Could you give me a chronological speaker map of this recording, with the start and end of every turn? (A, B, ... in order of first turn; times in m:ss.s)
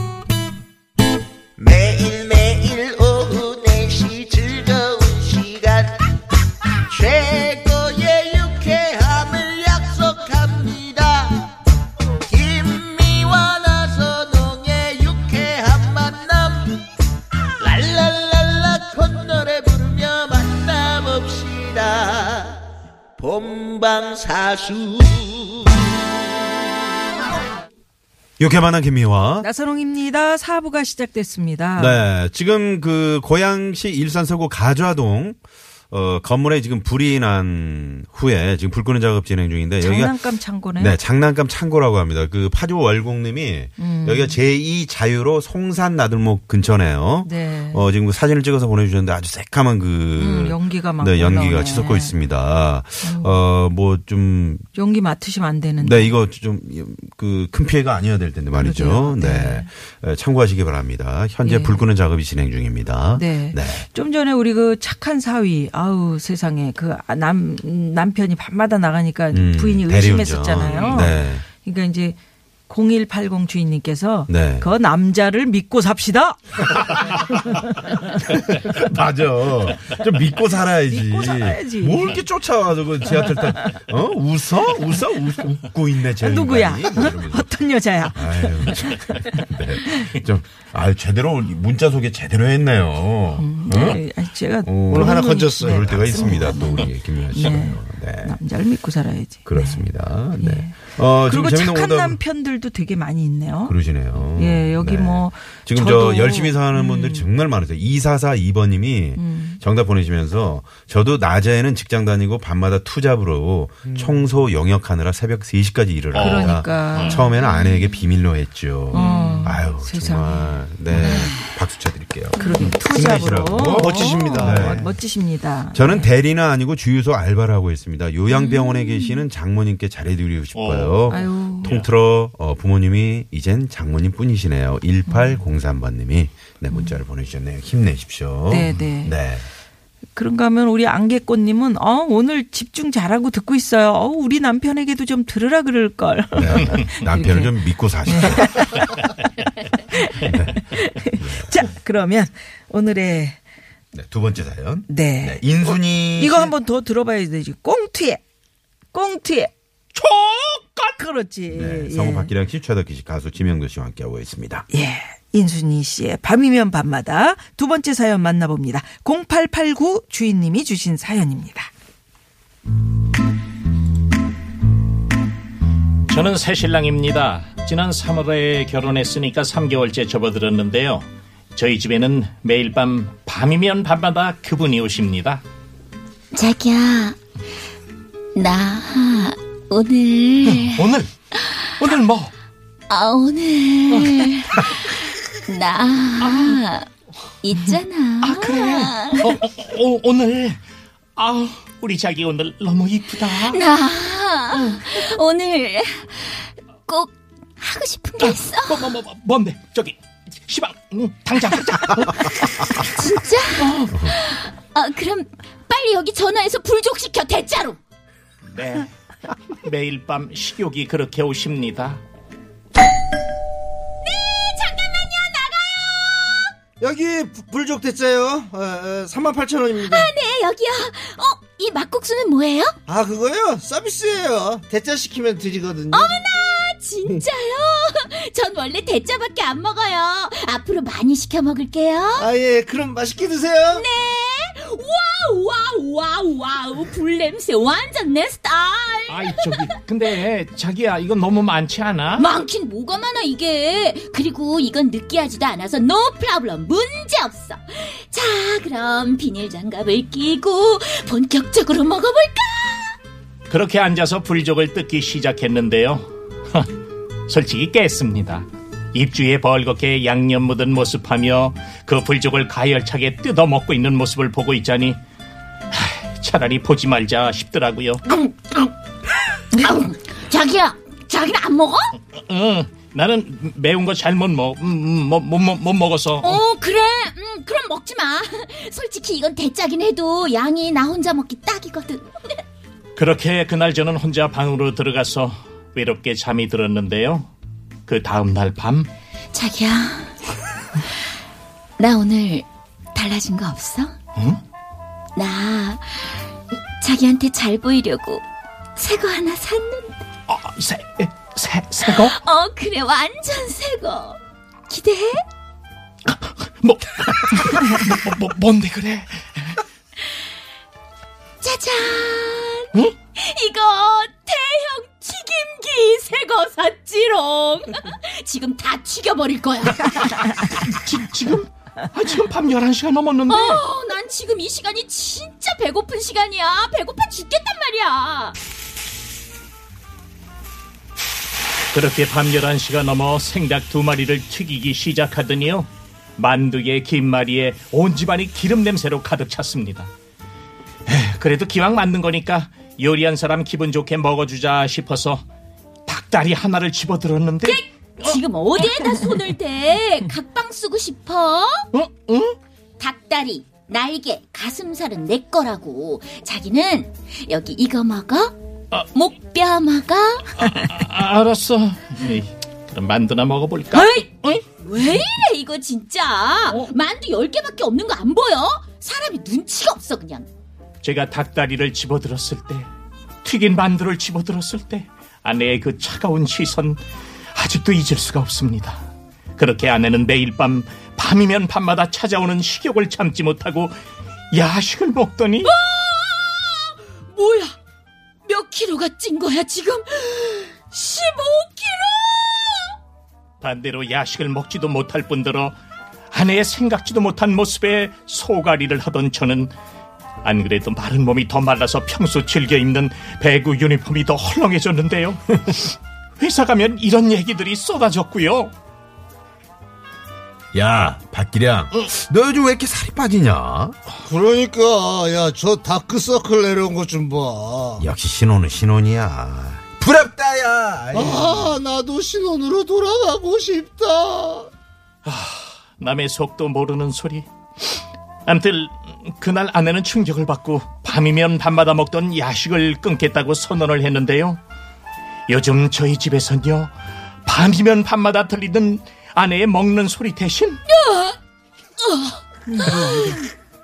0:01.6-0:06.0 A
0:06.9-0:11.5 A
0:12.3-0:16.8 A
0:17.6-0:22.6 A
0:23.2-0:25.9 A
0:28.4-0:29.5 B
0:29.4-0:32.0 C
0:31.8-0:35.4 B
0:35.9-0:54.6 B
0:39.8-0:41.0 C
0:43.8-0:44.4 C
0:47.2-0:47.9 C
0:50.2-0:52.2 C
0:53.0-0:53.4 C
0:54.7-0:56.2 C
0:55.8-1:03.9 B
0:58.6-0:59.7 C
1:01.4-1:01.9 C
1:03.1-1:12.2 C
1:09.3-1:11.4 B
1:12.7-1:18.0 C
1:14.3-1:14.7 B
1:18.2-1:34.0 B
1:20.9-1:22.2 C
1:23.1-1:23.8 C
1:26.2-1:30.1 C
1:33.4-1:47.3 C
1:34.6-1:38.4 B
1:34.9-1:36.3 D
1:39.5-1:42.2 B
1:43.6-2:04.9 B
1:49.2-1:49.6 C
1:53.9-1:54.2 D
1:56.1-1:57.2 E
1:56.2-1:57.4 C
1:58.9-2:01.2 C
1:58.9-1:59.5 E
2:02.4-2:06.1 C
2:03.6-2:05.0 D
2:05.7-2:19.5 B
2:10.5-2:11.9 E
2:11.1-2:11.7 C
2:15.1-2:15.4 C
2:16.7-2:17.0 C
2:18.5-2:19.2 C
2:20.1-2:29.0 C
2:26.4-2:28.8 B
2:29.8-2:33.4 C
2:30.2-2:31.6 B
2:33.9-2:36.5 B
2:34.9-2:38.2 C
2:38.9-2:39.5 C
2:39.9-2:41.0 E
2:41.0-2:42.3 C
2:41.5-2:44.7 B
2:44.7-2:51.7 C
2:56.1-3:05.4 E
3:06.3-3:07.2 F
3:08.4-3:11.6 F
3:10.4-3:11.1 E
3:11.7-3:12.3 E
3:12.9-3:16.9 F
3:13.9-3:14.7 E
3:16.2-3:16.6 E
3:17.4-3:19.3 F
3:17.5-3:20.6 E
3:21.2-3:23.6 E
3:23.3-3:29.0 F
3:24.5-3:24.8 E
3:28.2-3:32.8 E
3:32.9-3:37.8 F
3:33.6-3:34.0 E
3:33.9-3:34.1 B
3:38.5-3:38.9 E
3:39.5-3:42.0 E
3:44.0-3:46.5 F
3:46.8-3:50.1 D
3:49.7-3:52.8 F
3:52.9-3:56.2 D
3:55.9-4:02.3 F
4:02.2-4:03.9 D
4:03.7-4:09.8 F
4:09.1-4:12.3 E
4:12.2-4:23.0 F
4:23.5-4:26.7 E
4:27.3-4:35.0 E
4:35.7-4:38.0 E
4:38.1-4:38.7 F
4:39.5-4:42.0 F
4:42.1-4:46.4 E
4:46.2-4:52.4 F
4:53.0-4:57.3 E
4:57.9-4:58.9 E
4:59.3-5:00.2 F
5:01.8-5:04.0 F
5:05.2-5:06.3 F
5:06.8-5:08.2 F
5:08.8-5:10.0 F
5:10.3-5:12.2 E
5:11.8-5:15.2 F
5:16.1-5:19.6 E
5:21.4-5:30.4 F
5:30.5-5:33.6 E
5:33.3-5:38.4 F
5:41.7-5:49.9 E
5:50.9-5:55.2 E
5:55.9-5:58.9 E
5:57.4-6:01.6 F
6:01.7-6:02.4 E
6:02.8-6:10.4 F
6:10.4-6:15.1 E
6:13.7-6:20.3 F
6:20.8-6:22.7 E
6:23.2-6:26.8 E
6:27.3-6:33.8 E
6:34.3-6:35.5 E
6:35.4-6:37.6 F
6:38.2-6:42.7 F
6:43.4-6:45.6 E
6:46.1-6:49.5 E
6:50.2-6:58.5 E
7:00.5-7:03.8 B
7:03.9-7:07.9 D
7:07.8-7:11.6 B
7:10.9-7:14.5 D
7:15.0-7:24.4 E
7:25.3-7:26.7 E
7:27.2-7:30.6 E
7:30.7-7:31.2 F
7:31.8-7:33.3 F
7:32.5-7:33.2 C